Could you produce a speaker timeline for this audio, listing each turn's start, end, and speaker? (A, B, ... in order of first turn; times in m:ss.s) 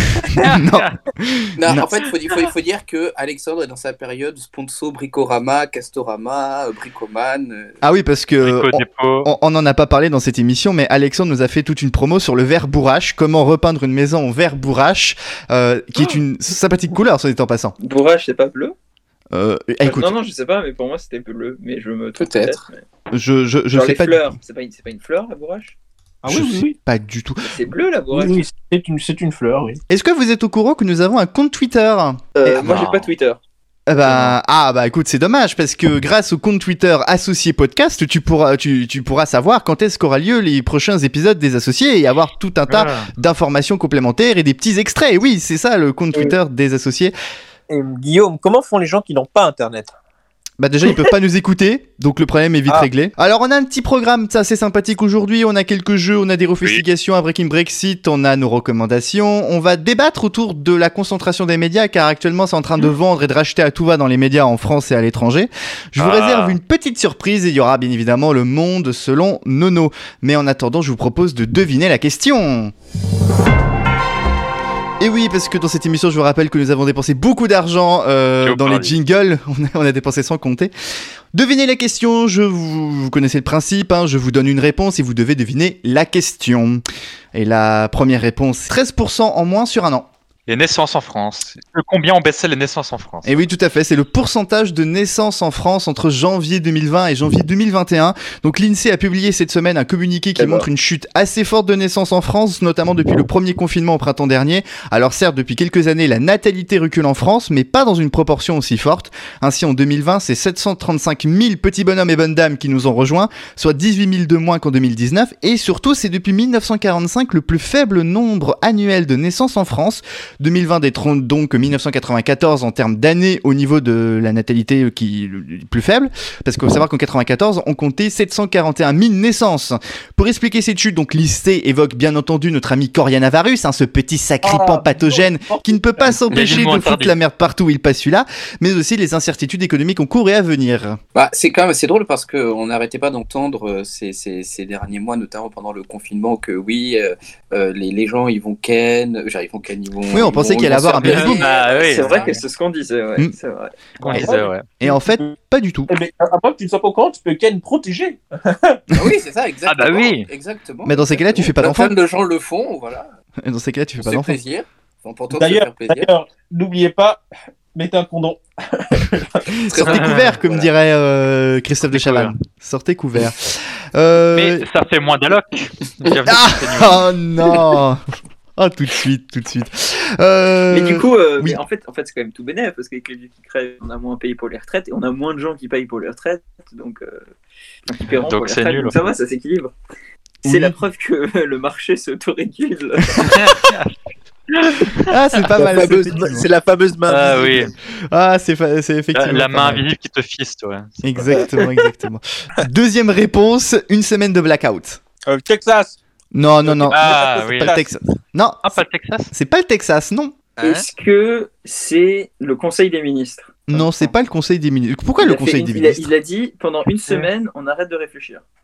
0:00.4-0:01.8 A
0:00.4-0:00.9 B
0:01.6-0:07.8 C
0:07.8-0:17.8 A
0:08.4-0:09.3 B
0:17.8-0:18.8 D
0:19.3-0:20.1 A
0:19.8-0:22.8 D
0:22.2-0:22.6 C
0:23.1-0:24.4 A
0:23.7-0:25.8 D
0:26.2-0:26.8 E
0:26.3-0:27.5 A
0:27.4-0:28.4 D
0:28.1-0:29.8 E
0:29.9-0:32.3 A
0:32.4-0:33.4 D
0:32.6-0:33.1 B
0:33.9-0:47.1 A
0:42.7-0:43.1 B
0:47.7-0:50.0 E
0:50.6-1:12.7 A
1:06.0-1:06.6 B
1:15.0-1:20.7 A
1:18.4-1:18.9 B
1:21.3-1:26.8 A
1:27.3-1:30.1 A
1:30.5-1:33.3 B
1:33.2-2:21.0 A
2:14.4-2:16.2 E
2:16.3-2:17.2 B
2:16.3-2:16.6 C
2:21.2-2:32.4 C
2:30.1-2:31.4 A
2:31.0-2:32.4 B
2:31.0-2:34.5 D
2:34.0-2:34.7 B
2:34.8-2:35.9 A
2:34.8-2:35.4 E
2:35.9-2:38.8 E
2:38.9-2:43.1 C
2:39.7-2:40.3 B
2:40.8-2:42.0 A
2:43.4-2:44.4 A
2:44.0-2:46.1 C
2:45.3-2:47.2 E
2:47.8-2:49.4 E
2:49.6-2:50.7 C
2:49.7-2:54.6 A
2:49.8-2:50.3 B
2:51.9-2:52.3 B
2:54.3-2:57.1 B
2:56.3-2:58.0 A
2:58.6-3:01.6 A
3:00.7-3:07.3 D
3:07.9-3:09.7 D
3:08.1-3:09.1 B
3:10.4-3:10.8 A
3:10.4-3:13.2 D
3:13.2-3:13.9 B
3:14.5-3:15.1 B
3:15.1-3:16.5 A
3:15.6-3:17.7 E
3:17.1-3:17.7 B
3:18.1-3:19.8 A
3:19.1-3:21.4 B
3:21.0-3:25.0 A
3:25.3-3:26.0 E
3:26.3-3:28.8 A
3:26.6-3:27.9 E
3:26.9-3:27.7 B
3:28.6-3:29.3 B
3:29.3-3:30.4 A
3:30.6-3:30.8 E
3:30.6-3:34.1 D
3:33.7-3:36.1 A
3:35.2-3:38.4 D